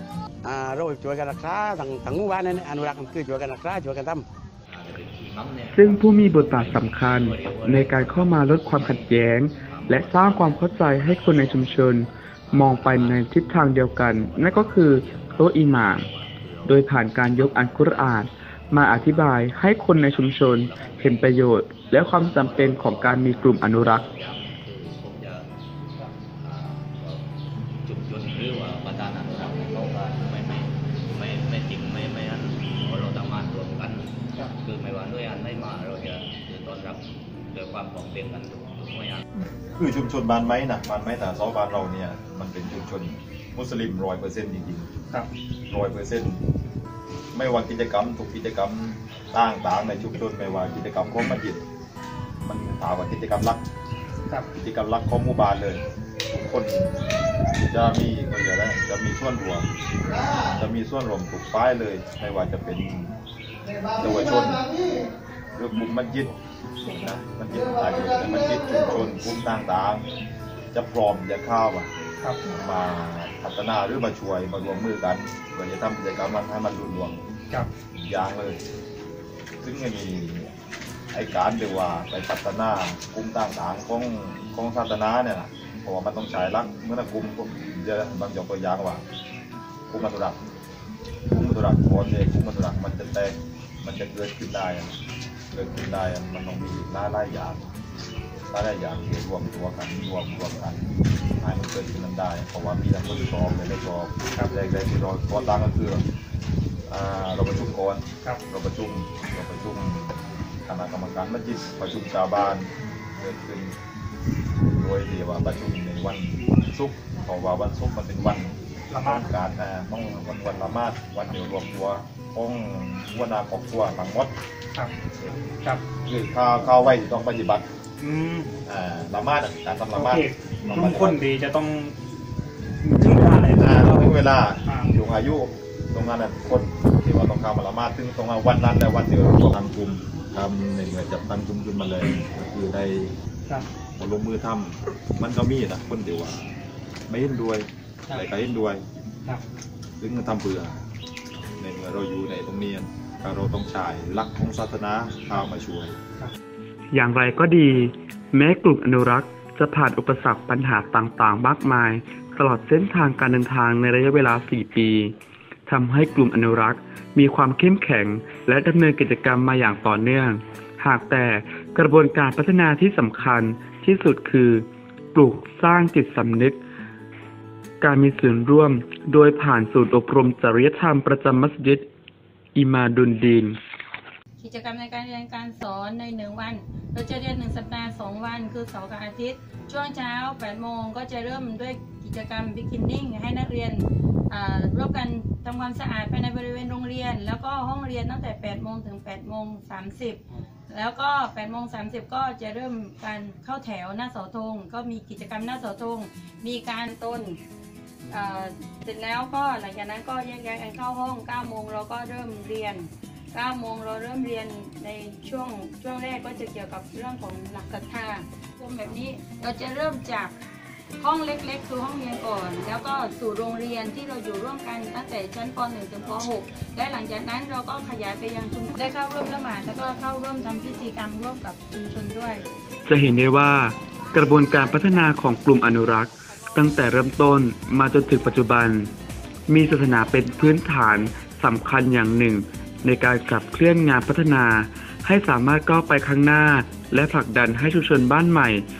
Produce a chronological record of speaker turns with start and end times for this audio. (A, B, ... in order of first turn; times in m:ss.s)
0:00.4-0:04.2 A
0:04.7-0:11.9 B
0:05.7-0:16.1 C
0:12.5-0:13.3 B
0:14.1-0:16.8 B
0:16.6-0:24.0 C
0:17.6-0:18.2 B
0:20.4-0:21.3 B
0:21.9-0:25.4 B
0:26.4-0:27.2 B
0:27.8-0:37.0 B
0:37.5-0:39.2 B
0:39.7-0:44.9 D
0:45.7-0:46.4 D
0:47.3-0:51.6 D
0:52.4-0:53.6 D
0:54.5-0:57.0 D
0:57.6-0:59.7 D
1:00.3-1:03.1 D
1:04.0-1:04.7 D
1:05.5-1:06.3 D
1:06.9-1:10.1 D
1:10.7-1:11.9 D
1:12.5-1:17.2 D
1:17.9-1:18.6 D
1:19.6-1:20.5 D
1:21.1-1:29.0 D
1:29.9-1:30.4 D
1:31.3-1:35.0 D
1:35.5-1:37.7 D
1:38.5-1:46.0 D
1:44.2-1:44.6 E
1:46.9-1:53.8 D
1:54.7-2:04.3 D
1:58.9-1:59.3 E
2:05.4-2:05.8 E
2:06.0-2:07.6 D
2:08.0-2:08.5 E
2:08.6-2:11.2 D
2:09.9-2:12.0 E
2:12.8-2:14.1 E
2:13.0-2:23.1 D
2:14.6-2:14.9 E
2:24.0-2:26.5 D
2:27.1-2:28.8 D
2:30.0-2:30.8 D
2:31.6-2:36.0 D
2:36.9-2:45.1 C
2:45.7-2:56.6 C
2:57.8-3:01.8 C
3:02.6-3:03.6 C
3:04.4-3:27.4 F
3:28.1-3:40.3 F
3:41.0-3:52.4 F
3:52.9-3:58.9 C
3:59.5-4:08.6 C